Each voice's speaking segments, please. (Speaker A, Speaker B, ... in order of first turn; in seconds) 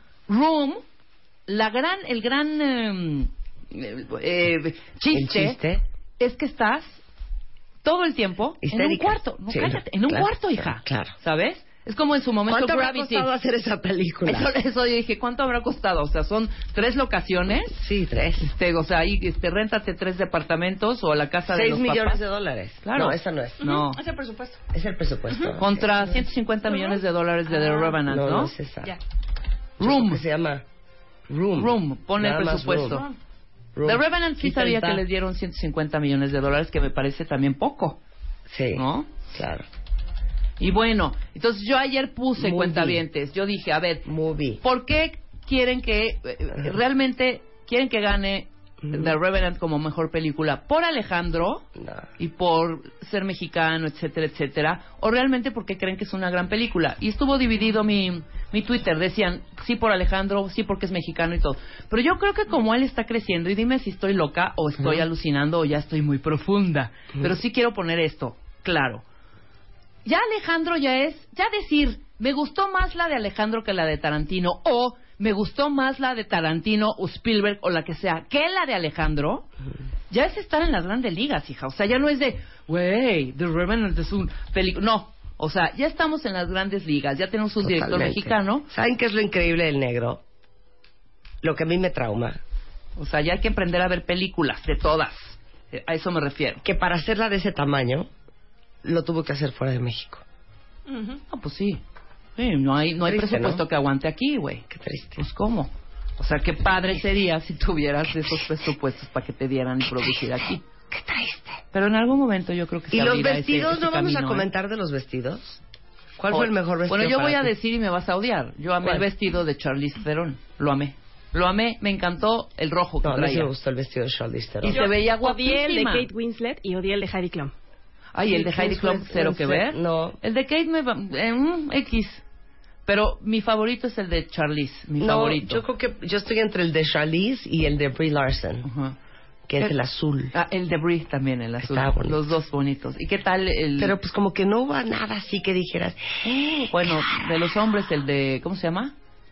Speaker A: 0.3-0.8, 1.5-5.6, 6.2-7.0, 7.8-13.3, 14.2-17.8, 18.4-22.2, 22.8-24.0, 25.6-28.5, 29.8-30.2, 31.6-33.1, 33.8-38.0, 38.8-39.1, 40.6-44.0, 44.6-51.6, 52.2-69.0, 70.0-79.5, 80.1-88.7, 93.0-96.6, 101.3-101.8, 102.4-104.7, 105.2-110.7, 111.7-114.5, 116.3-123.5, 124.6-126.1, 128.1-132.2, 132.9-135.6, 138.6-139.0, 140.3-143.9, 146.7-148.9
Speaker B: 5.1-5.8, 8.6-11.1, 12.5-14.5, 17.7-18.5, 21.5-23.6, 24.7-25.9, 28.1-28.9, 29.8-30.6, 31.3-33.0, 33.8-35.0, 38.5-39.6, 42.4-43.0, 44.1-44.6, 51.8-52.1, 87.6-90.2, 91.4-92.4, 96.6-98.1, 98.8-100.2, 103.0-103.6, 104.7-105.2, 110.9-111.6, 112.9-115.6, 116.2-117.5, 123.0-124.9, 128.5-130.2, 135.0-138.7, 139.5-140.3, 141.6-142.4, 143.8-146.9
Speaker C: 23.6-24.6, 26.7-28.0, 32.8-33.1, 100.9-101.2, 124.7-127.5, 128.2-128.5